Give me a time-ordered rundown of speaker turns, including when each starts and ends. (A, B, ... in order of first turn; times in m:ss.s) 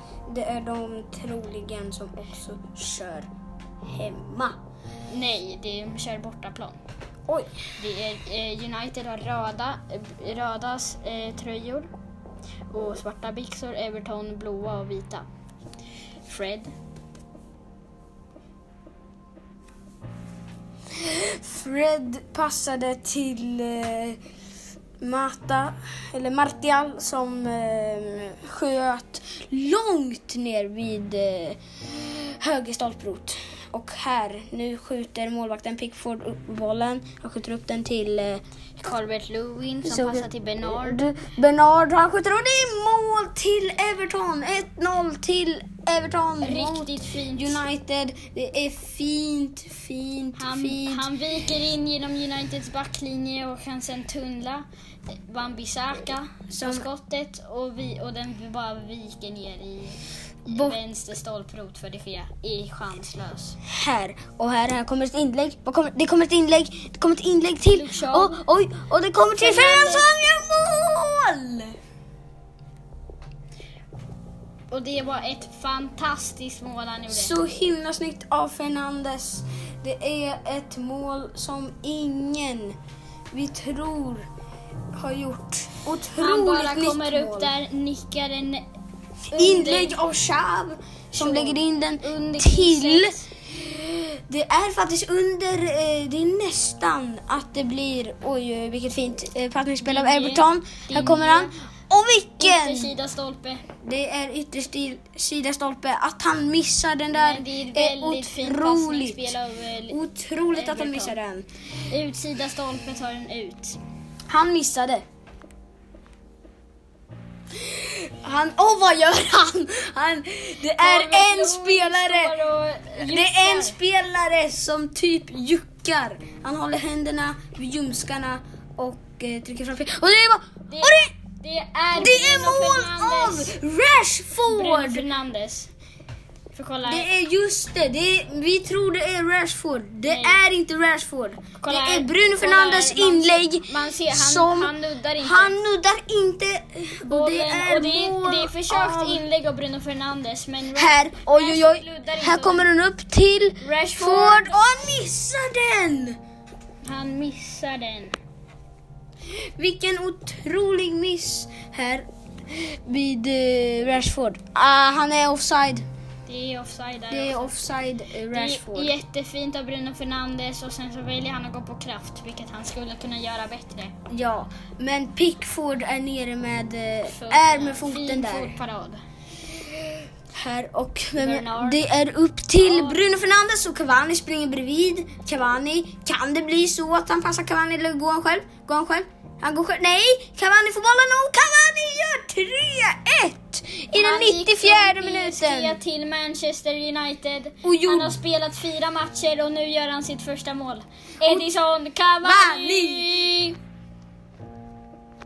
0:00.3-0:03.3 A
0:03.8-0:04.6 A
0:05.1-0:06.8 B
0:07.3-0:07.6 A
0:07.8-0:11.9 B
0:12.7-0:15.2 B
0:16.2-0:16.7 B
0:20.9-0:24.2 A
0:25.0-0:38.4 A
0:38.8-0:41.0 B
0:39.8-0:51.1 A
0:46.4-0:47.6 B
0:50.4-1:03.6 B
0:56.5-0:56.9 A
1:00.5-1:00.8 A
1:03.6-1:11.8 A
1:07.6-1:08.4 B
1:09.4-1:10.1 B
1:14.7-1:17.3 B
1:17.1-1:22.8 A
1:23.3-1:24.2 A
1:24.9-1:27.5 A
1:26.2-1:28.6 B
1:29.3-1:30.0 B
1:29.3-1:42.9 A
1:31.1-1:33.3 B
1:39.8-1:41.5 B
1:42.4-1:43.6 B
1:43.8-1:49.4 A
1:47.1-1:50.0 B
1:49.9-1:51.4 A
1:50.5-1:51.2 B
1:51.9-1:53.8 B
1:54.3-1:55.0 A
1:57.6-2:02.4 A
2:00.8-2:03.8 B
2:03.0-2:11.1 A
2:10.7-2:13.5 B
2:11.9-2:15.0 A
2:14.5-2:15.7 B
2:16.5-2:17.1 B
2:16.8-2:29.2 A
2:20.1-2:20.4 B
2:21.6-2:25.6 B
2:27.0-2:32.7 B
2:30.7-2:36.2 A
2:33.6-2:34.6 B
2:36.8-2:38.1 B
2:39.6-2:45.8 A
2:46.2-2:47.6 B
2:47.1-2:49.0 A
2:48.3-2:53.9 B
2:54.1-2:58.6 A
2:57.1-2:59.0 B
3:00.3-3:15.8 A
3:01.2-3:01.9 B
3:02.6-3:03.2 B
3:13.9-3:23.6 B
3:17.6-3:18.2 A
3:22.2-3:23.1 A